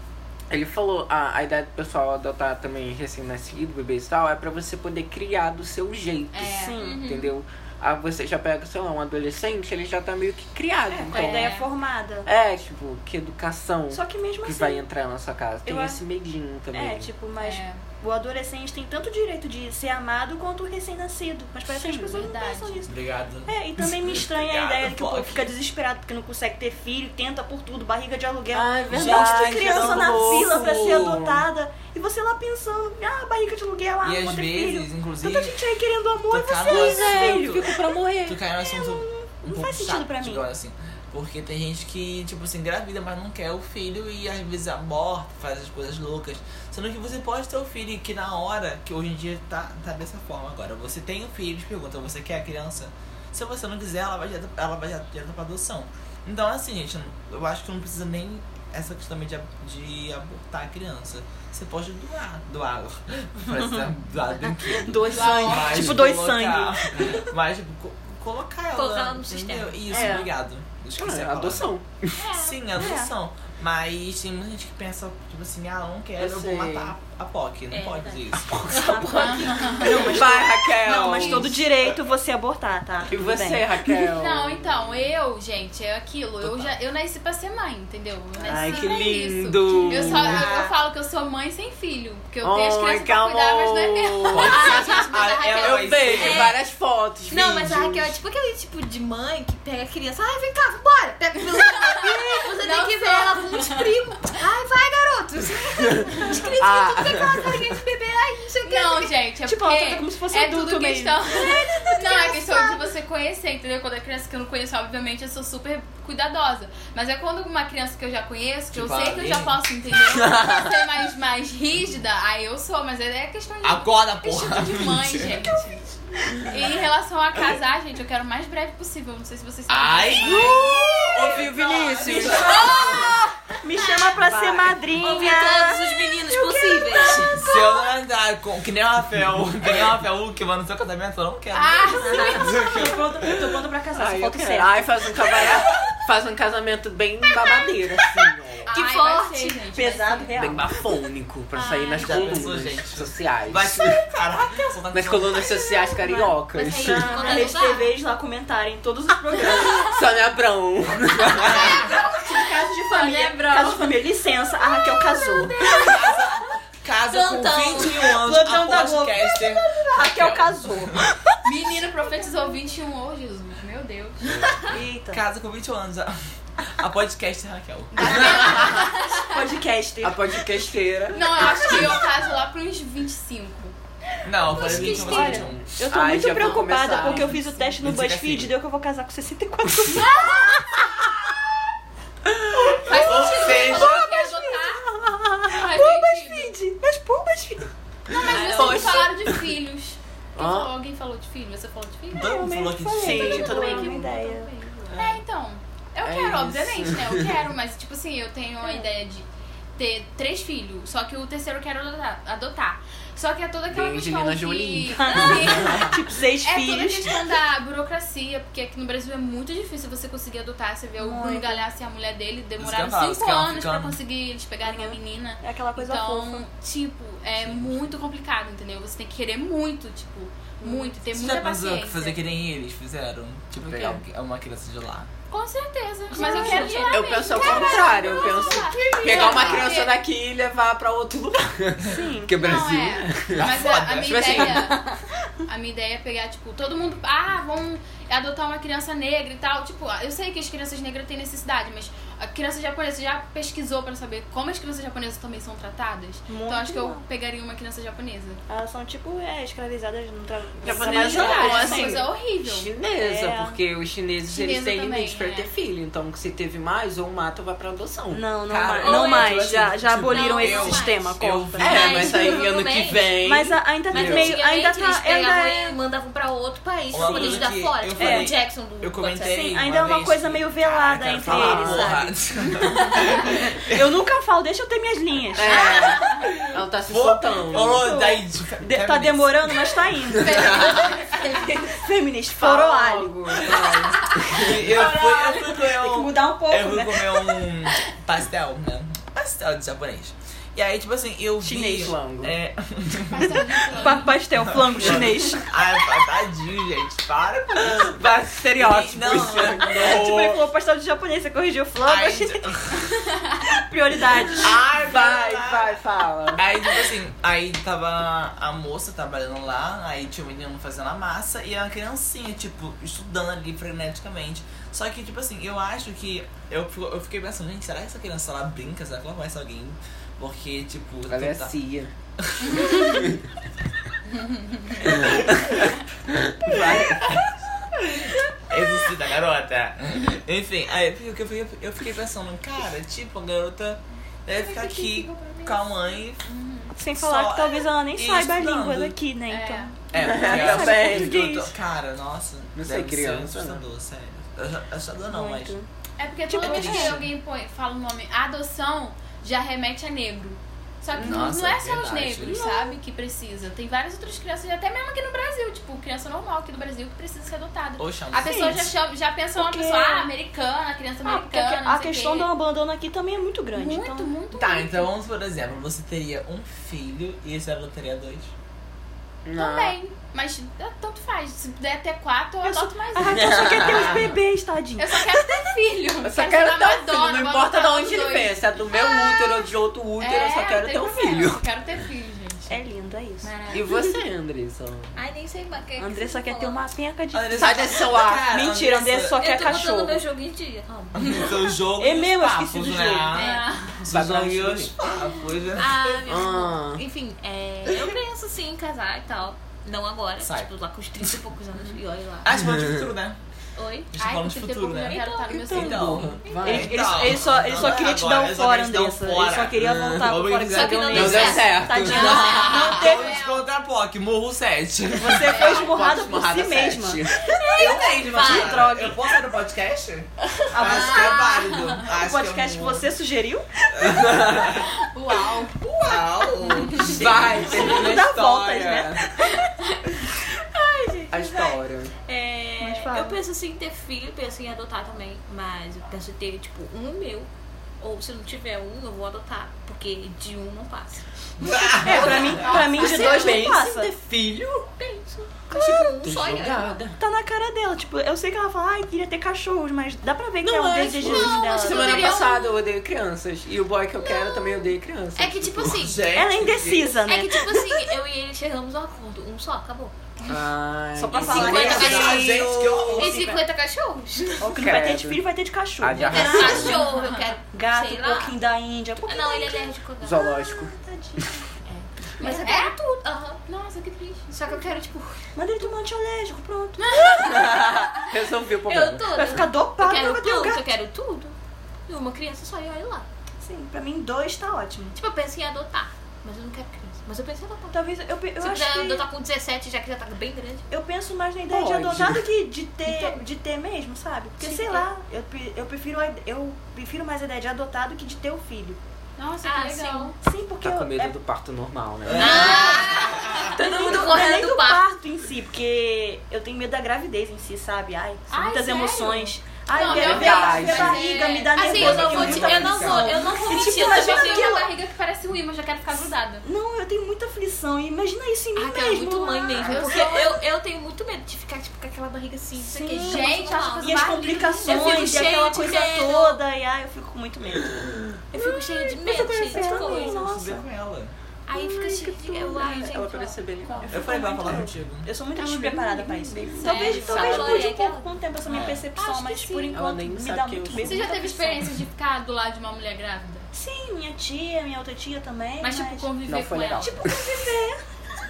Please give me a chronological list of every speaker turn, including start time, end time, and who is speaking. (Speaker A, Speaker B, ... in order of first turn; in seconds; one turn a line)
Speaker A: 0.5-11.6
Speaker B: 6.3-7.3
Speaker C: 6.5-7.0
Speaker C: 10.9-12.3
Speaker B: 11.1-11.7
Speaker A: 12.3-17.1
Speaker C: 13.9-14.8
Speaker C: 15.7-16.0
Speaker C: 16.7-37.6
Speaker B: 17.4-17.8
Speaker A: 21.7-22.3
Speaker B: 22.1-22.8
Speaker D: 22.9-25.5
Speaker A: 28.5-31.5
Speaker D: 28.9-31.1
Speaker D: 34.0-35.6
Speaker D: 36.3-71.7
Speaker A: 36.7-38.4
Speaker C: 38.7-40.5
Speaker C: 64.8-67.2
Speaker B: 65.1-66.0
Speaker E: 68.8-70.1
Speaker C: 69.9-70.3
Speaker A: 69.9-70.3
Speaker A: 71.0-72.3
Speaker E: 72.2-72.5
Speaker D: 72.3-78.7
Speaker C: 72.7-73.1
Speaker A: 76.2-76.9
Speaker E: 77.7-80.2
Speaker C: 78.6-83.7
Speaker A: 78.7-79.1
Speaker B: 79.1-80.2
Speaker A: 80.0-81.6
Speaker B: 81.1-81.5
Speaker A: 83.1-84.9
Speaker B: 83.9-95.6
Speaker D: 86.4-86.8
Speaker A: 88.4-90.5
Speaker C: 88.5-88.8
Speaker C: 90.0-90.7
Speaker A: 92.4-98.1
Speaker D: 94.3-96.5
Speaker E: 94.4-96.6
Speaker E: 97.3-109.1
Speaker B: 101.7-103.9
Speaker A: 106.0-107.7
Speaker B: 108.7-125.8
Speaker C: 109.5-112.8
Speaker D: 118.7-119.6
Speaker A: 120.2-120.6
Speaker D: 123.6-125.5
Speaker B: 126.4-130.7
Speaker D: 129.7-133.1
Speaker A: 130.2-132.8
Speaker C: 132.0-132.9
Speaker B: 132.2-133.1
Speaker E: 132.2-137.4
Speaker C: 133.6-137.6
Speaker D: 137.3-143.5
Speaker B: 141.5-142.6
Speaker E: 142.0-142.6
Speaker C: 142.1-145.6
Speaker A: 143.9-148.7
Speaker B: 148.7-150.3
Speaker E: 148.7-149.6
Speaker C: 149.7-150.7
Speaker A: 150.4-154.0
Speaker E: 151.5-152.5
Speaker D: 152.0-155.6
Speaker A: 154.9-157.2
Speaker C: 155.7-160.0
Speaker E: 156.5-157.9
Speaker B: 156.9-157.8
Speaker A: 159.4-161.8
Speaker D: 161.4-161.9
Speaker C: 161.4-166.0
Speaker B: 161.5-164.0
Speaker E: 163.1-163.8
Speaker B: 164.7-166.1
Speaker D: 165.6-171.0
Speaker E: 167.1-168.2
Speaker C: 168.0-172.6
Speaker B: 171.4-174.5
Speaker D: 174.3-178.6
Speaker C: 174.7-175.2
Speaker B: 177.9-179.5
Speaker C: 178.0-180.5
Speaker A: 178.3-178.9
Speaker A: 180.0-181.9
Speaker B: 181.1-183.8
Speaker D: 184.2-185.8
Speaker E: 184.5-185.4
Speaker B: 184.6-185.5
Speaker C: 184.6-191.0
Speaker A: 185.4-187.4
Speaker B: 186.3-187.8
Speaker D: 187.8-188.5
Speaker B: 189.9-190.8
Speaker C: 192.6-197.7
Speaker B: 192.8-194.9
Speaker D: 192.9-194.1
Speaker B: 195.5-196.6
Speaker B: 198.1-202.5
Speaker E: 198.2-199.0
Speaker A: 198.3-199.4
Speaker C: 198.5-198.9
Speaker A: 200.4-200.7
Speaker D: 202.1-203.7
Speaker C: 202.2-204.5
Speaker B: 203.0-204.2
Speaker E: 203.1-205.0
Speaker B: 204.9-232.2
Speaker A: 206.0-207.4
Speaker A: 213.7-215.9
Speaker C: 214.9-217.2
Speaker E: 215.1-215.8
Speaker C: 221.0-221.7
Speaker D: 222.6-224.0
Speaker C: 224.6-226.4
Speaker D: 227.4-228.0
Speaker C: 230.6-230.9
Speaker D: 231.0-235.1
Speaker A: 233.6-234.0
Speaker B: 235.3-240.0
Speaker E: 236.1-238.6
Speaker C: 236.1-236.9
Speaker A: 236.8-244.9
Speaker D: 238.8-239.7
Speaker C: 241.9-242.4
Speaker B: 242.4-244.8
Speaker D: 243.3-244.6
Speaker B: 245.5-258.4
Speaker C: 256.3-257.0
Speaker C: 258.5-262.1
Speaker A: 260.6-269.5
Speaker B: 260.7-262.7
Speaker C: 263.0-263.6
Speaker B: 264.3-265.5
Speaker C: 268.1-272.4
Speaker E: 268.8-273.2
Speaker D: 269.3-272.1
Speaker A: 271.6-274.4
Speaker C: 273.2-275.8
Speaker E: 273.9-279.4
Speaker D: 276.9-284.0
Speaker C: 277.1-278.3
Speaker C: 279.2-282.1
Speaker A: 281.2-282.0
Speaker C: 282.8-286.0
Speaker A: 285.3-287.9
Speaker E: 285.5-285.8
Speaker B: 285.7-286.2
Speaker D: 286.9-289.8
Speaker C: 287.8-290.9
Speaker A: 290.1-290.8
Speaker B: 290.2-291.6
Speaker E: 290.5-291.6
Speaker C: 291.7-293.7
Speaker A: 292.3-294.6
Speaker D: 294.3-310.5
Speaker C: 294.6-297.4
Speaker C: 301.4-301.9
Speaker A: 301.5-302.4
Speaker B: 303.1-304.2
Speaker C: 303.7-305.5
Speaker A: 307.6-310.0
Speaker C: 309.6-312.5
Speaker D: 311.8-312.9
Speaker C: 313.5-314.6
Speaker D: 314.4-315.8
Speaker A: 314.8-316.5
Speaker D: 316.3-331.5
Speaker A: 331.1-331.9
Speaker D: 332.2-333.1
Speaker B: 332.4-333.0
Speaker A: 332.6-333.2
Speaker B: 334.1-334.9
Speaker D: 334.9-335.5
Speaker A: 334.9-337.2
Speaker D: 336.5-337.3
Speaker D: 337.9-346.2
Speaker E: 344.5-345.7
Speaker B: 344.6-345.1
Speaker B: 346.2-346.8
Speaker C: 346.8-351.5
Speaker D: 346.9-349.0
Speaker B: 349.3-349.8
Speaker D: 349.9-355.6
Speaker A: 349.9-351.2
Speaker A: 352.6-353.6
Speaker C: 355.1-355.7
Speaker B: 356.0-372.3
Speaker C: 356.3-357.0
Speaker D: 356.4-357.1
Speaker D: 360.9-362.5
Speaker C: 362.3-362.8
Speaker D: 367.8-368.7
Speaker C: 368.2-368.6
Speaker C: 369.4-370.1
Speaker C: 371.0-374.1
Speaker B: 373.5-374.9
Speaker D: 374.3-378.3
Speaker A: 379.2-379.8
Speaker B: 379.4-384.0
Speaker C: 382.4-385.2
Speaker A: 383.1-384.1
Speaker B: 384.8-389.4
Speaker A: 386.0-391.4
Speaker B: 390.0-392.6
Speaker C: 392.5-393.9
Speaker B: 393.2-393.7
Speaker A: 393.5-395.0
Speaker E: 394.9-396.6
Speaker C: 395.8-400.0
Speaker D: 397.1-399.2
Speaker A: 397.4-398.3
Speaker E: 399.2-401.4
Speaker D: 400.9-406.0
Speaker C: 401.8-403.2
Speaker B: 403.1-403.8
Speaker A: 403.9-404.7
Speaker E: 405.5-412.3
Speaker A: 406.1-406.8
Speaker D: 410.2-410.5
Speaker D: 412.2-413.2
Speaker E: 413.6-413.9
Speaker D: 413.9-425.5
Speaker B: 414.0-416.5
Speaker E: 414.9-415.5
Speaker A: 415.3-416.9
Speaker C: 416.4-423.2
Speaker A: 419.6-420.1
Speaker E: 420.5-422.8
Speaker A: 420.9-422.7
Speaker B: 422.5-423.4
Speaker C: 424.9-429.1
Speaker B: 425.1-425.8
Speaker A: 425.3-427.4
Speaker E: 427.3-428.7
Speaker D: 427.5-432.9
Speaker C: 430.5-433.7
Speaker B: 430.6-431.9
Speaker D: 433.7-434.7
Speaker A: 433.8-434.6
Speaker B: 434.6-435.6
Speaker D: 435.6-438.7
Speaker B: 436.6-436.9
Speaker A: 436.7-439.0
Speaker C: 437.5-440.2
Speaker E: 440.5-447.3
Speaker A: 441.1-441.9
Speaker C: 442.6-443.2
Speaker E: 447.8-453.7
Speaker D: 451.4-452.4
Speaker C: 451.8-453.9
Speaker B: 452.4-453.0
Speaker A: 452.7-454.7
Speaker E: 454.8-456.8
Speaker C: 455.5-456.0
Speaker A: 456.0-457.0
Speaker C: 457.0-462.2
Speaker A: 460.4-465.8
Speaker E: 461.0-462.6
Speaker E: 464.1-466.1
Speaker D: 465.8-467.0
Speaker C: 466.1-467.8
Speaker E: 467.1-470.3
Speaker A: 470.3-472.3
Speaker C: 471.0-473.4
Speaker E: 471.2-474.5
Speaker D: 471.2-473.3
Speaker C: 474.4-476.9
Speaker A: 474.5-475.2
Speaker A: 475.8-476.8
Speaker E: 476.1-478.4
Speaker B: 476.4-477.3
Speaker C: 477.5-481.5
Speaker E: 479.1-480.4
Speaker A: 480.0-481.4
Speaker E: 481.7-483.4
Speaker B: 482.2-482.8
Speaker C: 482.2-482.5
Speaker B: 483.5-484.3
Speaker E: 484.3-485.2
Speaker C: 485.4-487.5
Speaker E: 486.9-491.4
Speaker A: 487.0-489.5
Speaker C: 489.1-490.6
Speaker E: 491.9-493.1
Speaker C: 493.4-495.0
Speaker E: 495.0-497.8
Speaker C: 497.7-499.1
Speaker E: 498.4-500.7
Speaker C: 500.7-508.8
Speaker A: 501.5-502.3
Speaker E: 502.9-503.2
Speaker E: 504.4-504.9
Speaker B: 509.2-510.2
Speaker E: 509.4-510.1
Speaker C: 510.2-511.1
Speaker A: 510.6-512.9
Speaker D: 512.0-513.6
Speaker E: 512.1-514.9
Speaker C: 512.3-512.7
Speaker C: 513.5-524.7
Speaker B: 518.3-526.5
Speaker A: 519.8-521.0
Speaker E: 520.3-521.0
Speaker E: 521.5-524.7
Speaker D: 521.6-523.2
Speaker C: 526.0-530.1
Speaker E: 528.6-536.4
Speaker B: 529.6-530.4
Speaker C: 532.6-537.8
Speaker B: 533.0-535.4
Speaker A: 537.6-538.2
Speaker E: 538.3-540.2
Speaker C: 538.4-540.7
Speaker A: 539.1-539.9
Speaker D: 539.6-541.1
Speaker E: 541.5-543.9
Speaker A: 541.5-544.5
Speaker C: 543.9-551.8
Speaker D: 543.9-545.1
Speaker A: 545.3-547.7
Speaker B: 546.6-547.6
Speaker E: 546.6-548.2
Speaker D: 548.5-548.9
Speaker B: 548.6-549.8
Speaker A: 549.7-551.0
Speaker B: 550.8-553.5
Speaker C: 553.5-556.1
Speaker B: 555.6-557.1
Speaker A: 556.3-557.2
Speaker C: 556.8-557.8